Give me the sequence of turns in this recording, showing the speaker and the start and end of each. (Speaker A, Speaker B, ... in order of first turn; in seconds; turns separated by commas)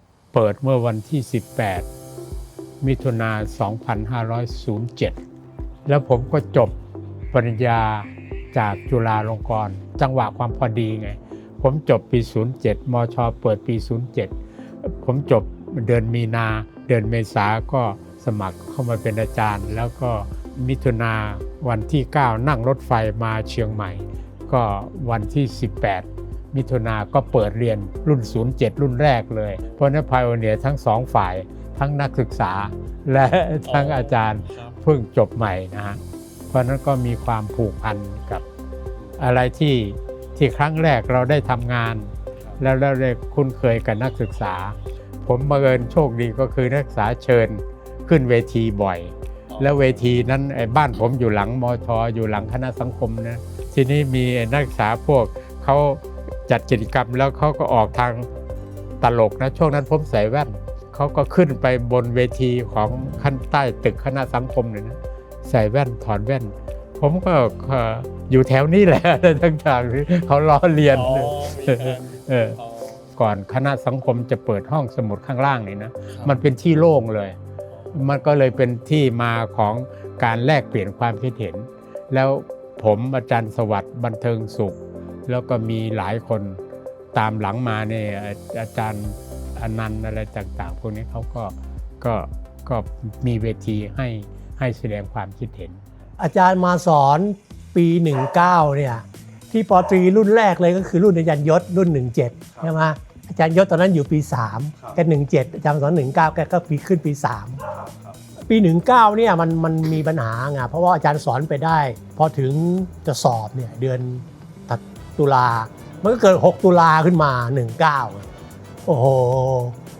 Speaker A: 0.3-1.9, Speaker A: 2.8-5.2, Speaker A: 5.9-6.8, Speaker A: 7.3-14.3, Speaker A: 15.0-36.0, Speaker B: 33.7-34.7, Speaker A: 36.5-38.4, Speaker A: 39.2-58.3, Speaker B: 49.5-50.1, Speaker A: 59.0-72.6, Speaker B: 70.9-73.1, Speaker A: 73.2-77.4, Speaker B: 76.1-76.4, Speaker A: 77.9-86.6, Speaker A: 87.1-95.8, Speaker C: 96.2-107.7, Speaker C: 108.5-118.3, Speaker C: 118.9-119.8